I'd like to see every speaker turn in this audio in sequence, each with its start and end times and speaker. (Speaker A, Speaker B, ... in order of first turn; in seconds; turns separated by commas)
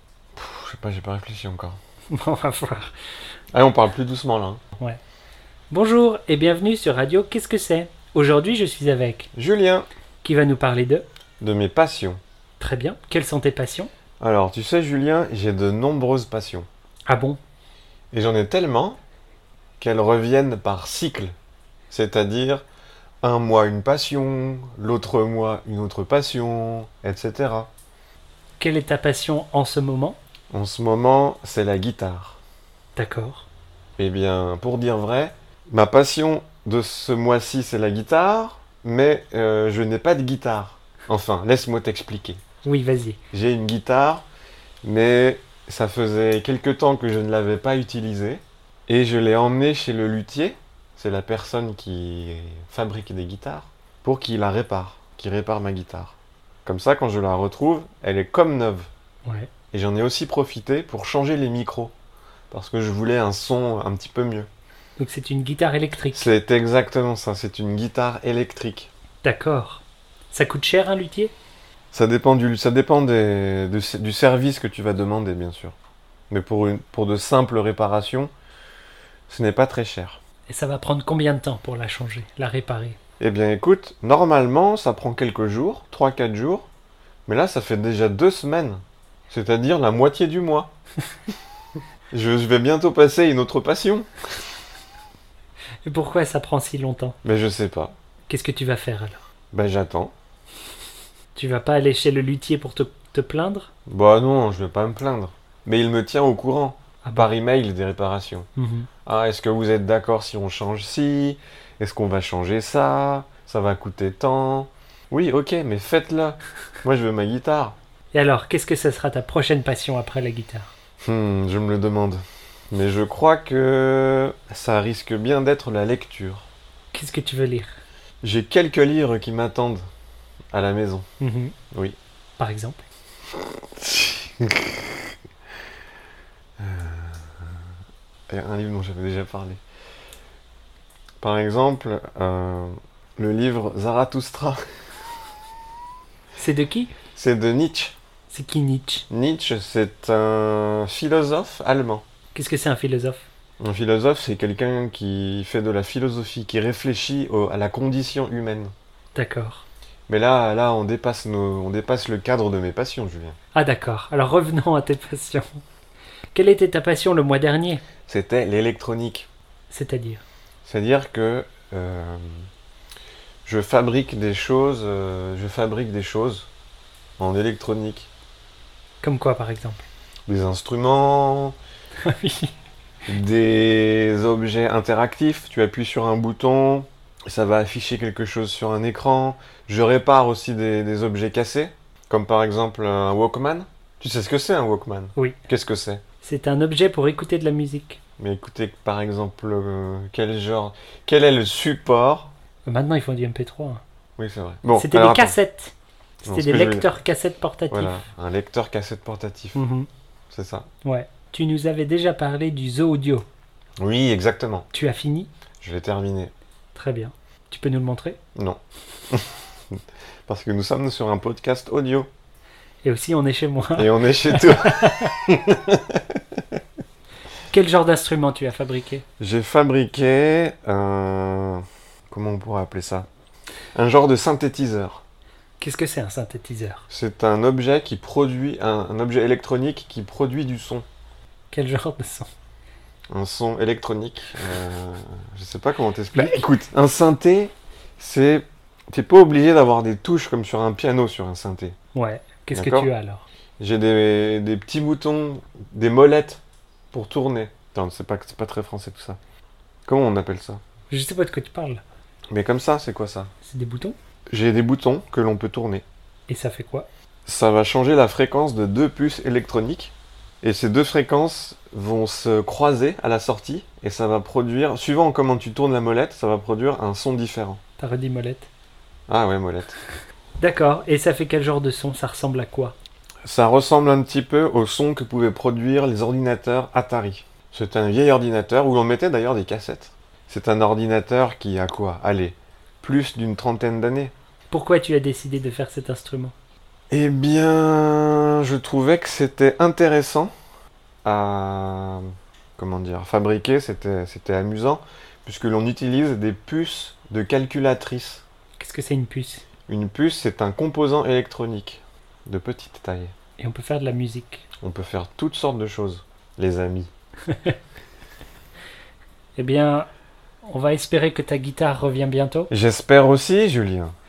Speaker A: 0.3-1.8, Speaker B: 2.1-2.9, Speaker A: 3.5-4.6, Speaker B: 5.7-9.3, Speaker A: 9.3-9.9, Speaker B: 10.2-11.0, Speaker A: 11.4-12.2, Speaker B: 12.6-13.9, Speaker A: 14.2-16.7, Speaker B: 17.1-17.4, Speaker A: 18.1-19.0, Speaker A: 19.8-21.4, Speaker A: 21.9-22.6, Speaker A: 23.2-27.7, Speaker B: 28.6-30.2, Speaker A: 30.5-32.4, Speaker B: 33.0-33.5, Speaker A: 34.0-42.4, Speaker B: 42.6-43.2, Speaker A: 43.3-44.2, Speaker A: 44.8-58.9, Speaker A: 59.7-61.9, Speaker A: 62.5-64.5, Speaker B: 65.0-66.3, Speaker A: 66.1-68.9, Speaker B: 69.2-71.3, Speaker A: 71.9-75.8, Speaker A: 76.3-78.3, Speaker A: 79.3-80.2, Speaker B: 80.5-83.0, Speaker A: 83.2-86.7, Speaker A: 87.3-90.7, Speaker A: 92.1-94.1, Speaker B: 95.8-97.2, Speaker A: 97.2-97.9, Speaker B: 98.3-99.2, Speaker A: 99.5-100.1, Speaker B: 101.3-103.7, Speaker A: 103.9-108.5, Speaker B: 107.0-107.3, Speaker B: 108.6-108.9, Speaker A: 109.1-117.8, Speaker B: 118.1-120.7, Speaker A: 121.0-126.5, Speaker B: 126.9-127.8, Speaker A: 128.2-129.8, Speaker A: 130.5-131.1, Speaker B: 131.2-131.5, Speaker B: 132.4-132.8, Speaker A: 133.8-135.0, Speaker A: 136.6-137.6, Speaker A: 138.3-139.6, Speaker A: 141.2-144.6, Speaker B: 146.3-146.9, Speaker A: 147.1-147.9, Speaker B: 148.3-149.1, Speaker A: 149.1-152.0, Speaker B: 152.3-153.2, Speaker A: 153.6-158.7, Speaker B: 159.1-159.6, Speaker A: 160.1-163.4, Speaker B: 163.5-165.6, Speaker B: 166.3-167.8, Speaker A: 168.1-169.3, Speaker B: 169.7-170.2, Speaker A: 170.6-172.5, Speaker A: 173.4-176.5, Speaker A: 177.2-178.1, Speaker B: 179.0-179.8, Speaker A: 180.3-181.5, Speaker B: 182.0-182.5, Speaker A: 183.1-196.0, Speaker B: 196.2-198.0, Speaker A: 198.2-202.3, Speaker B: 202.6-203.8, Speaker A: 204.2-205.4, Speaker B: 204.8-205.7, Speaker B: 206.2-208.0, Speaker A: 206.2-206.9, Speaker A: 207.7-209.6, Speaker B: 209.5-209.9, Speaker A: 210.3-210.7, Speaker B: 210.8-213.2, Speaker A: 213.8-214.7, Speaker B: 214.7-215.3, Speaker A: 215.6-216.3, Speaker B: 216.8-218.2, Speaker A: 218.3-222.1, Speaker B: 222.8-225.2, Speaker A: 223.8-226.4, Speaker B: 227.5-229.0, Speaker A: 229.2-233.1, Speaker A: 233.8-235.0, Speaker B: 235.6-236.8, Speaker A: 236.9-240.8, Speaker B: 241.5-242.3, Speaker A: 243.1-251.8, Speaker B: 246.1-246.5, Speaker B: 251.9-253.2, Speaker A: 252.5-252.9, Speaker A: 253.6-256.4, Speaker A: 256.9-259.2, Speaker A: 259.9-260.6, Speaker B: 260.9-261.8, Speaker A: 262.3-263.3, Speaker B: 263.4-263.9, Speaker A: 264.3-265.8, Speaker B: 266.3-266.9, Speaker A: 267.2-277.6, Speaker B: 277.8-278.5, Speaker A: 279.1-279.8, Speaker B: 280.4-282.8, Speaker A: 283.2-294.1, Speaker B: 294.5-296.3, Speaker A: 296.9-300.3, Speaker A: 301.1-308.2, Speaker B: 308.6-309.4, Speaker A: 309.7-313.1, Speaker B: 313.4-314.4, Speaker A: 314.6-316.9, Speaker B: 317.3-317.6, Speaker B: 319.4-319.9, Speaker B: 320.4-322.5, Speaker A: 322.5-323.9